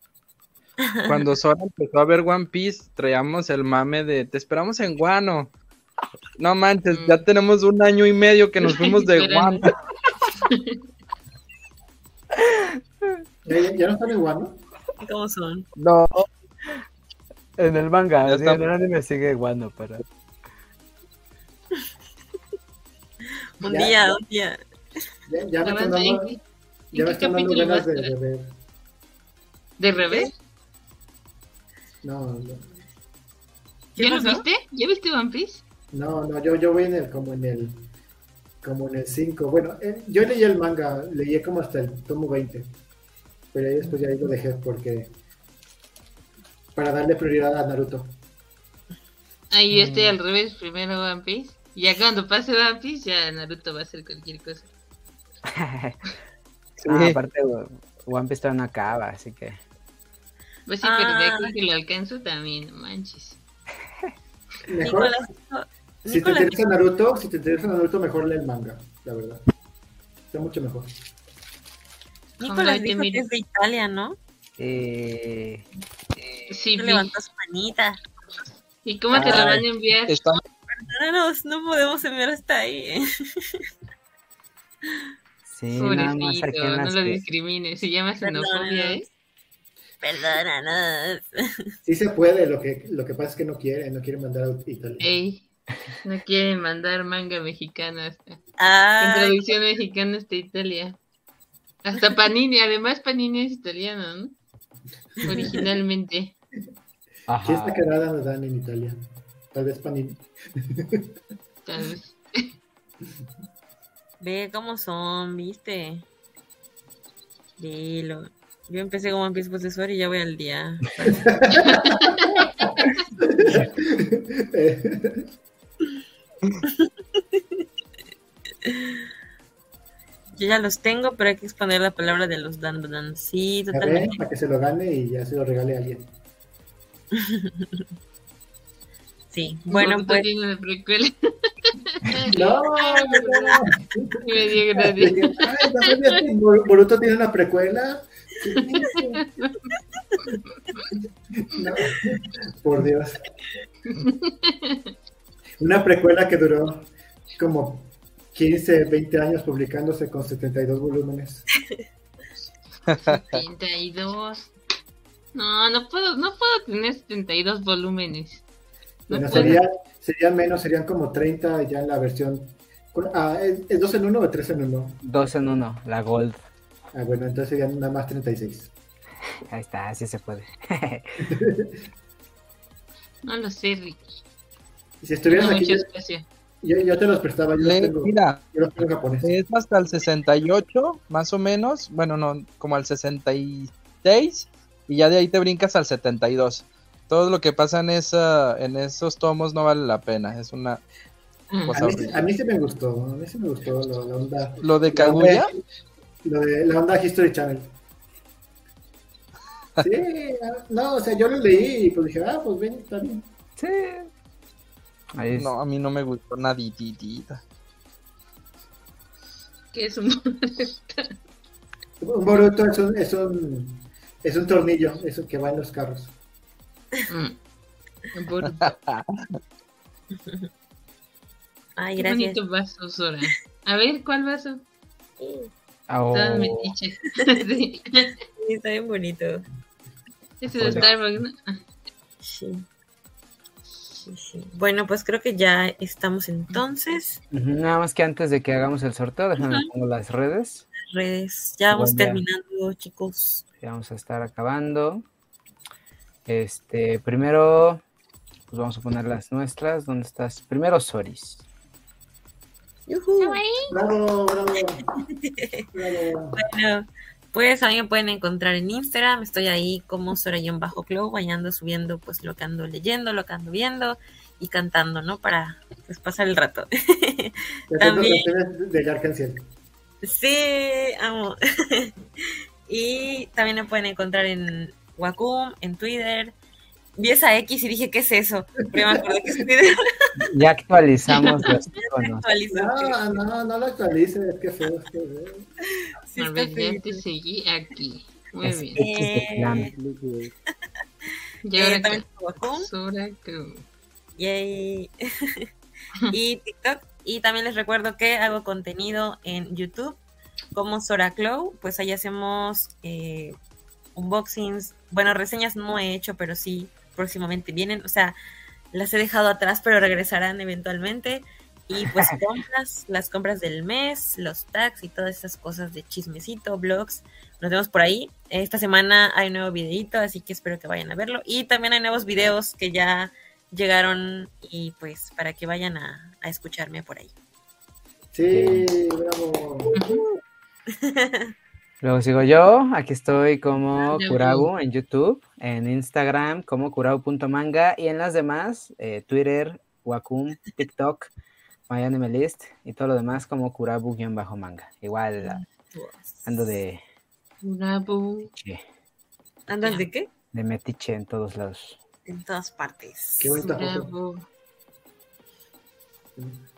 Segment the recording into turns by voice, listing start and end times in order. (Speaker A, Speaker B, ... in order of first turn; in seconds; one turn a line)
Speaker A: 0.8-1.1
Speaker B: 1.0-5.5
Speaker B: 6.4-9.7
Speaker C: 6.9-7.2
Speaker C: 8.6-9.7
Speaker C: 10.3-10.8
Speaker D: 13.4-14.6
Speaker A: 15.0-15.7
Speaker B: 15.8-16.3
Speaker E: 17.6-20.0
Speaker B: 18.3-18.6
Speaker A: 23.6-24.6
Speaker D: 23.6-24.2
Speaker D: 25.3-26.3
Speaker C: 25.6-26.4
Speaker C: 26.9-28.1
Speaker D: 26.9-28.5
Speaker C: 29.8-30.3
Speaker D: 32.0-32.7
Speaker A: 33.9-34.4
Speaker C: 34.0-35.6
Speaker D: 35.9-37.8
Speaker D: 38.6-42.7
Speaker D: 43.5-45.1
Speaker D: 46.7-48.1
Speaker C: 49.5-54.7
Speaker B: 49.7-50.1
Speaker E: 55.5-56.0
Speaker B: 56.8-57.2
Speaker E: 56.9-59.6
Speaker C: 60.7-63.4
Speaker A: 60.8-61.5
Speaker D: 64.7-65.2
Speaker A: 64.8-66.6
Speaker D: 66.0-69.4
Speaker D: 70.3-70.9
Speaker A: 72.4-74.2
Speaker C: 72.4-73.2
Speaker E: 74.6-75.6
Speaker C: 76.5-77.1
Speaker A: 76.7-78.0
Speaker C: 78.8-80.2
Speaker E: 79.1-79.6
Speaker B: 80.1-80.4
Speaker A: 80.7-83.7
Speaker E: 85.5-87.2
Speaker C: 85.7-89.0
Speaker A: 88.2-89.0
Speaker A: 90.0-91.7
Speaker D: 91.8-95.1
Speaker C: 95.0-95.4
Speaker C: 96.0-98.4
Speaker A: 98.6-99.5
Speaker C: 99.0-101.0
Speaker C: 101.8-104.3
Speaker C: 105.2-106.3
Speaker A: 105.3-105.6
Speaker E: 107.3-107.8
Speaker D: 107.4-109.0
Speaker D: 109.5-111.0
Speaker C: 111.7-112.5
Speaker A: 114.2-116.1
Speaker A: 117.6-121.2
Speaker D: 121.0-122.1
Speaker C: 121.6-123.0
Speaker D: 123.2-125.2
Speaker A: 126.7-127.6
Speaker A: 128.6-129.1
Speaker A: 130.3-134.2
Speaker D: 133.7-136.1
Speaker A: 137.1-137.8
Speaker A: 139.3-140.3
Speaker C: 139.7-143.7
Speaker D: 142.3-149.2
Speaker C: 144.2-146.2
Speaker C: 149.0-149.8
Speaker C: 150.3-150.9
Speaker D: 151.4-153.2
Speaker C: 153.9-154.8
Speaker D: 155.6-161.5
Speaker B: 162.9-163.4
Speaker C: 162.9-164.5
Speaker C: 165.3-168.4
Speaker C: 169.1-169.6
Speaker D: 169.1-175.0
Speaker E: 169.3-169.6
Speaker E: 175.0-176.4
Speaker D: 176.9-178.7
Speaker E: 179.5-181.2
Speaker D: 181.2-181.7
Speaker C: 183.2-184.0
Speaker D: 185.0-185.9
Speaker C: 185.3-186.2
Speaker D: 186.6-189.3
Speaker B: 187.6-188.4
Speaker B: 189.2-200.8
Speaker C: 201.5-201.9
Speaker B: 201.6-202.2
Speaker D: 201.7-205.6
Speaker B: 204.6-205.5
Speaker D: 206.2-207.7
Speaker D: 209.8-213.2
Speaker E: 213.6-214.1
Speaker E: 215.1-215.5
Speaker B: 215.3-217.4
Speaker C: 219.7-221.1
Speaker D: 222.0-226.1
Speaker C: 227.1-227.4
Speaker C: 228.1-228.7
Speaker B: 228.6-229.2
Speaker A: 230.1-230.5
Speaker A: 231.8-232.4
Speaker C: 232.0-234.6
Speaker A: 235.2-235.5
Speaker E: 235.9-236.7
Speaker C: 236.1-238.2
Speaker A: 238.4-239.4
Speaker C: 240.4-241.6
Speaker E: 240.5-240.9
Speaker A: 242.2-242.6
Speaker A: 244.1-247.2
Speaker E: 247.3-250.7
Speaker A: 250.8-253.4
Speaker E: 251.7-252.2
Speaker E: 253.6-255.0
Speaker E: 256.2-257.8
Speaker E: 258.5-261.4
Speaker A: 262.9-263.4
Speaker C: 263.2-263.7
Speaker D: 263.7-264.8
Speaker A: 265.1-265.7
Speaker D: 265.7-266.4
Speaker A: 266.3-278.3
Speaker D: 277.7-279.4
Speaker A: 280.0-281.9
Speaker A: 282.7-286.3
Speaker A: 286.9-290.2
Speaker D: 288.6-289.0
Speaker E: 290.2-292.2
Speaker A: 291.2-293.1
Speaker D: 292.5-295.5
Speaker A: 295.8-297.0
Speaker C: 296.2-298.8
Speaker E: 298.4-299.7
Speaker A: 298.8-299.7
Speaker B: 299.7-300.3
Speaker C: 301.4-303.6
Speaker A: 301.5-302.7
Speaker A: 304.2-305.4
Speaker A: 306.1-310.0
Speaker A: 310.5-313.4
Speaker A: 313.9-318.1
Speaker A: 318.7-337.1
Speaker D: 338.1-339.7
Speaker E: 338.3-338.7
Speaker A: 339.7-340.2
Speaker C: 339.7-340.0
Speaker A: 340.7-341.3
Speaker E: 341.8-351.1
Speaker C: 343.9-344.5
Speaker E: 351.7-355.4
Speaker A: 355.2-356.4
Speaker E: 356.2-356.8
Speaker C: 357.4-358.3
Speaker E: 358.3-358.6
Speaker A: 359.5-360.1
Speaker C: 359.6-359.9
Speaker E: 360.3-361.8
Speaker A: 362.1-363.4
Speaker D: 363.2-363.9
Speaker C: 363.3-364.2
Speaker D: 366.1-366.4